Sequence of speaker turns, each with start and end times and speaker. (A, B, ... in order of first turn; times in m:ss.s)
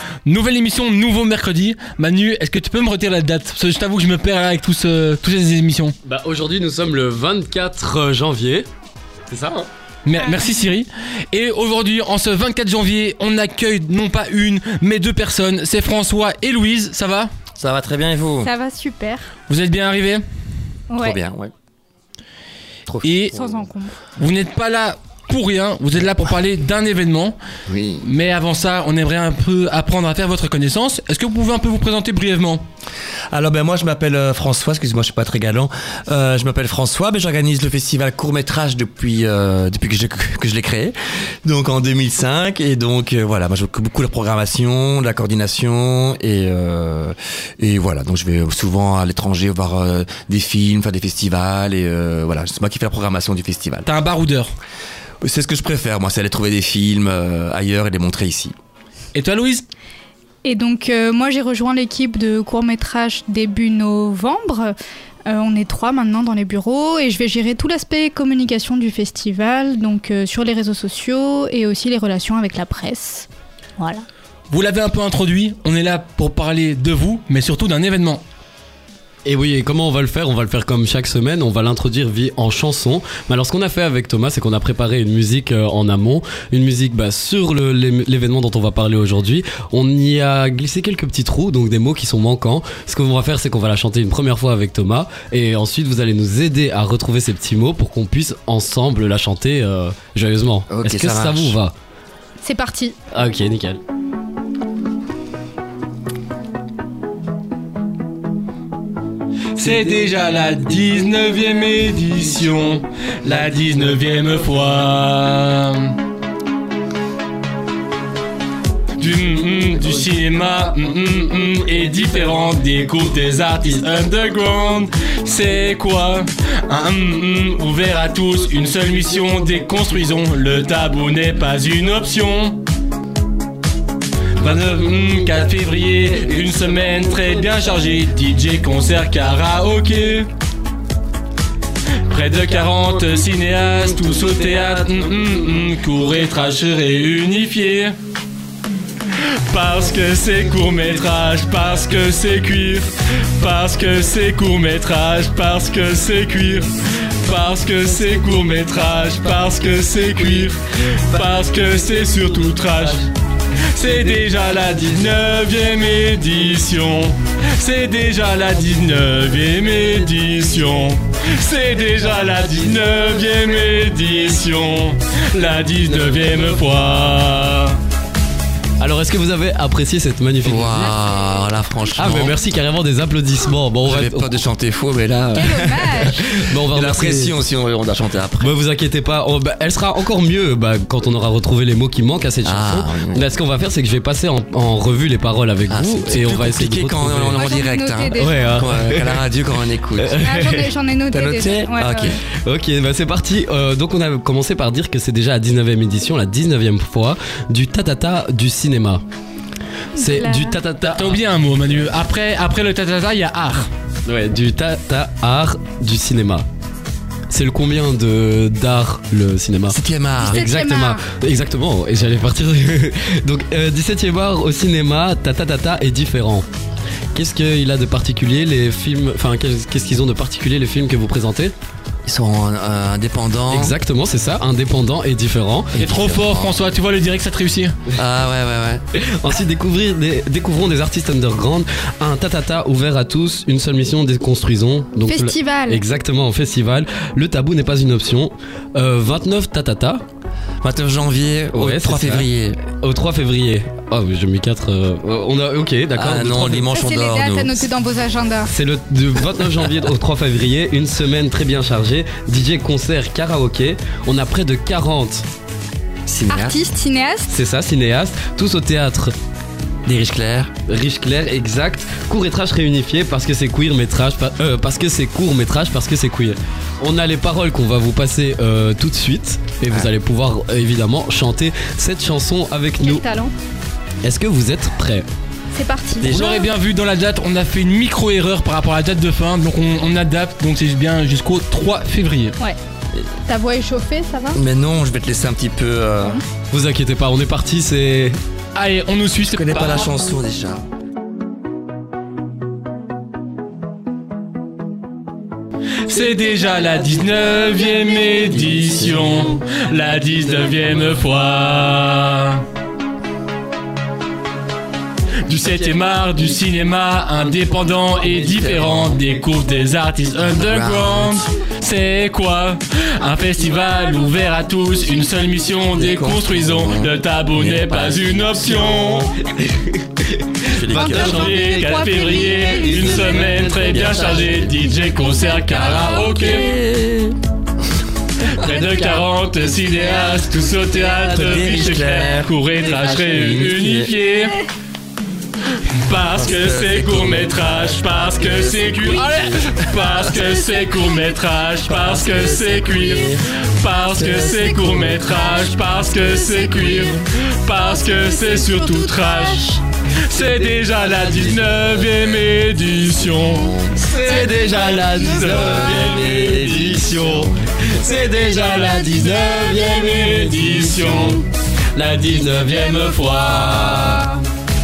0:00.2-0:05.9 A
0:06.0-0:08.7 B
0:09.3-0:09.7 B
0:10.0-0:17.3 A
0:17.6-0:18.5 C
0:18.4-0:19.3 D
0:19.5-0:20.2 A
0:20.9-0:21.2 D
0:21.0-0:21.5 C
0:22.9-0:23.6 C
0:23.0-0:23.4 A
0:23.3-0:24.0 D
0:24.2-0:27.4 A
0:27.7-0:28.0 C
0:28.0-0:32.6 A
0:33.3-0:53.9 C
0:53.8-0:54.5 A
0:55.2-0:58.5 C
0:59.1-0:59.7 A
1:00.4-1:04.7 D
1:05.2-1:13.3 D
1:13.8-1:14.0 D
1:14.5-1:18.2 A
1:19.2-1:41.7 B
1:40.7-1:41.6 C
1:42.4-1:43.0 D
1:43.1-1:43.8 B
1:49.6-1:56.0 A
1:59.0-2:12.6 A
2:14.4-2:20.3 A
2:22.1-2:28.0 A
2:29.2-2:43.1 A
2:43.7-2:57.8 A
2:58.8-3:01.0 B
3:00.4-3:02.4 C
3:02.0-3:04.4 B
3:03.8-3:05.7 C
3:05.3-3:06.3 D
3:06.1-3:07.3 B
3:06.6-3:08.6 C
3:08.4-3:17.4 B
3:12.4-3:13.2 C
3:15.7-3:20.2 C
3:17.3-3:18.6 D
3:18.2-3:19.3 B
3:20.0-3:20.7 B
3:20.2-3:22.2 D
3:21.1-3:22.2 C
3:22.4-3:29.0 B
3:30.0-3:30.6 D
3:30.0-3:31.2 B
3:30.9-3:33.7 A
3:34.1-3:36.5 B
3:37.3-3:46.5 B
3:39.7-3:40.5 C
3:40.2-3:41.0 D
3:47.1-3:51.5 B
3:52.0-3:53.8 C
3:53.5-3:55.7 B
3:55.7-3:56.6 C
3:55.8-3:57.8 A
3:57.9-3:58.8 C
3:58.9-4:10.0 B
4:05.0-4:05.8 D
4:10.6-4:12.6 C
4:11.5-4:16.7 B
4:15.9-4:17.7 C
4:16.7-4:18.5 D
4:18.5-4:25.2 B
4:26.1-4:26.6 C
4:26.3-4:27.3 D
4:27.3-4:29.2 B
4:29.9-4:30.5 C
4:30.7-4:43.0 B
4:42.8-4:43.3 D
4:44.0-4:45.1 B
4:45.5-4:46.4 D
4:46.0-4:46.5 C
4:46.1-4:52.4 A
4:53.2-4:54.4 D
4:54.3-4:56.2 C
4:56.5-4:58.2 B
4:58.6-4:59.9 A
4:59.2-5:00.6 C
5:05.8-5:12.4 A
5:08.4-5:09.0 C
5:15.2-5:29.2 A
5:18.1-5:19.0 C
5:20.4-5:21.2 C
5:25.8-5:28.8 C
5:30.4-5:31.3 C
5:30.7-5:36.3 D
5:30.8-5:36.5 A
5:33.0-5:34.7 C
5:36.0-5:37.2 C
5:38.2-5:44.4 A
5:38.4-5:39.0 D
5:40.8-5:43.9 C
5:45.8-6:06.6 A
5:46.2-5:49.3 C
5:50.2-5:50.8 D
5:51.7-5:53.2 C
5:53.9-5:54.7 C
5:54.0-5:57.0 D
5:57.6-5:59.6 D
6:00.9-6:01.8 C
6:03.3-6:03.9 C
6:03.8-6:07.3 B
6:04.2-6:05.5 D
6:05.0-6:07.9 C
6:07.8-6:14.2 A
6:08.8-6:09.2 D